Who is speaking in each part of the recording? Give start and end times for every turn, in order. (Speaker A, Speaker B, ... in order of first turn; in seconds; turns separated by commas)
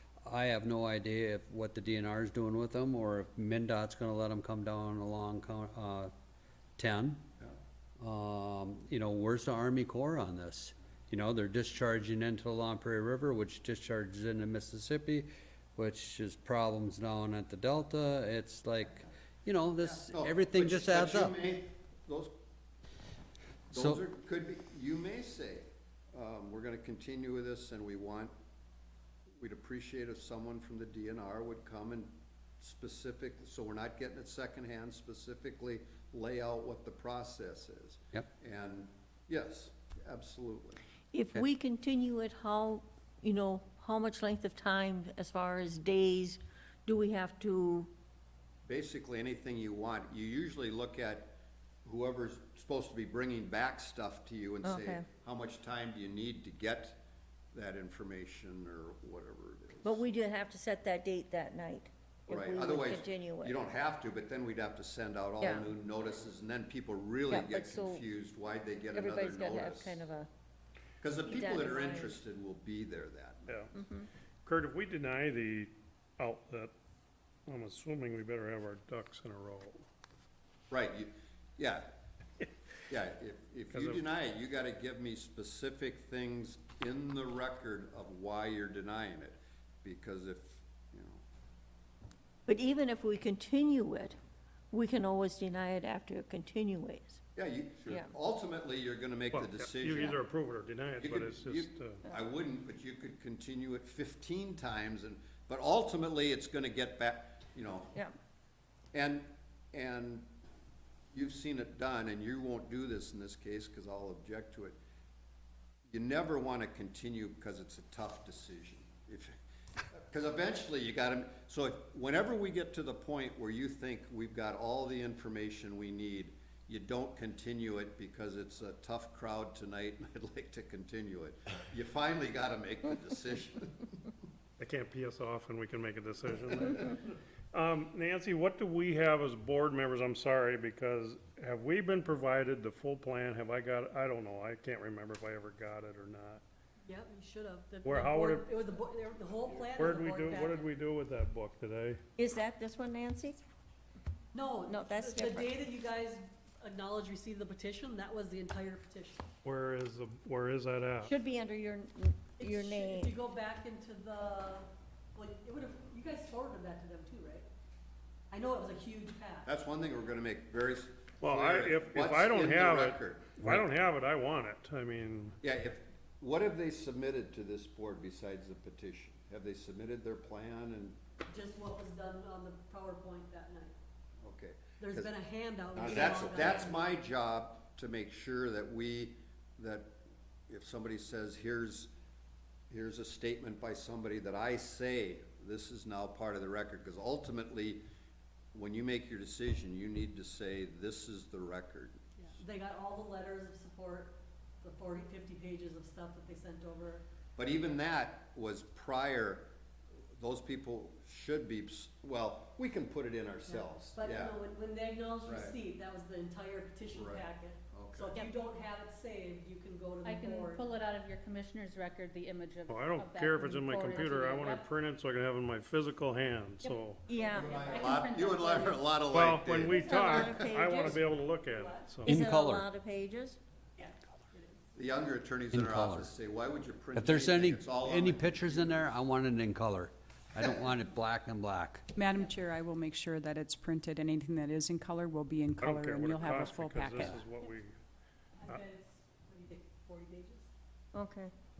Speaker A: 0.2-6.1, Speaker A: 6.8-7.2, Speaker A: 8.0-21.4, Speaker B: 19.8-22.3, Speaker B: 23.7-28.3, Speaker A: 23.7-24.0, Speaker B: 29.3-40.8, Speaker C: 41.1-47.9, Speaker B: 48.6-57.0, Speaker C: 54.6-55.0, Speaker B: 57.5-60.0, Speaker C: 59.8-63.6, Speaker B: 62.3-70.0, Speaker C: 65.4-65.7, Speaker C: 67.3-68.0, Speaker C: 68.9-70.3, Speaker B: 71.0-73.7, Speaker C: 71.2-72.2, Speaker D: 73.5-73.7, Speaker C: 73.7-74.1, Speaker D: 74.4-76.7, Speaker D: 77.5-79.8, Speaker B: 80.7-81.9, Speaker B: 82.9-91.2, Speaker D: 83.7-84.0, Speaker C: 92.5-94.2, Speaker C: 94.7-97.2, Speaker B: 97.3-100.2, Speaker D: 99.3-102.0, Speaker B: 101.0-108.0, Speaker B: 108.9-110.3, Speaker B: 111.1-114.8, Speaker B: 115.9-119.3, Speaker B: 119.9-133.9, Speaker D: 134.6-146.4, Speaker E: 146.8-150.7, Speaker D: 147.8-148.6, Speaker D: 149.8-152.0, Speaker C: 152.2-153.4, Speaker E: 154.3-159.2, Speaker C: 154.7-155.6, Speaker D: 159.4-161.1, Speaker C: 161.0-163.1, Speaker E: 162.4-167.5, Speaker E: 168.3-169.5, Speaker B: 169.4-173.3, Speaker D: 171.2-175.3, Speaker B: 175.4-181.0, Speaker E: 181.3-183.8, Speaker B: 184.2-185.1, Speaker E: 184.8-186.8, Speaker B: 185.7-191.9, Speaker C: 185.8-186.4, Speaker B: 192.7-197.8, Speaker B: 198.5-202.1, Speaker E: 202.2-207.0, Speaker B: 207.3-209.5, Speaker B: 210.1-214.3, Speaker E: 213.5-220.7, Speaker B: 215.2-215.6, Speaker B: 216.9-218.3, Speaker F: 220.0-224.7, Speaker D: 222.7-227.0, Speaker F: 226.6-228.9, Speaker C: 227.1-227.6, Speaker E: 227.1-227.8, Speaker B: 227.3-230.5, Speaker D: 229.1-232.2, Speaker C: 229.7-231.1, Speaker E: 231.4-232.0, Speaker A: 232.0-232.7, Speaker C: 232.0-233.4, Speaker E: 233.8-234.6, Speaker B: 234.7-238.9, Speaker A: 235.5-236.1, Speaker A: 236.9-241.8, Speaker G: 241.9-247.2, Speaker D: 245.6-247.7, Speaker E: 248.4-250.5, Speaker C: 250.9-251.3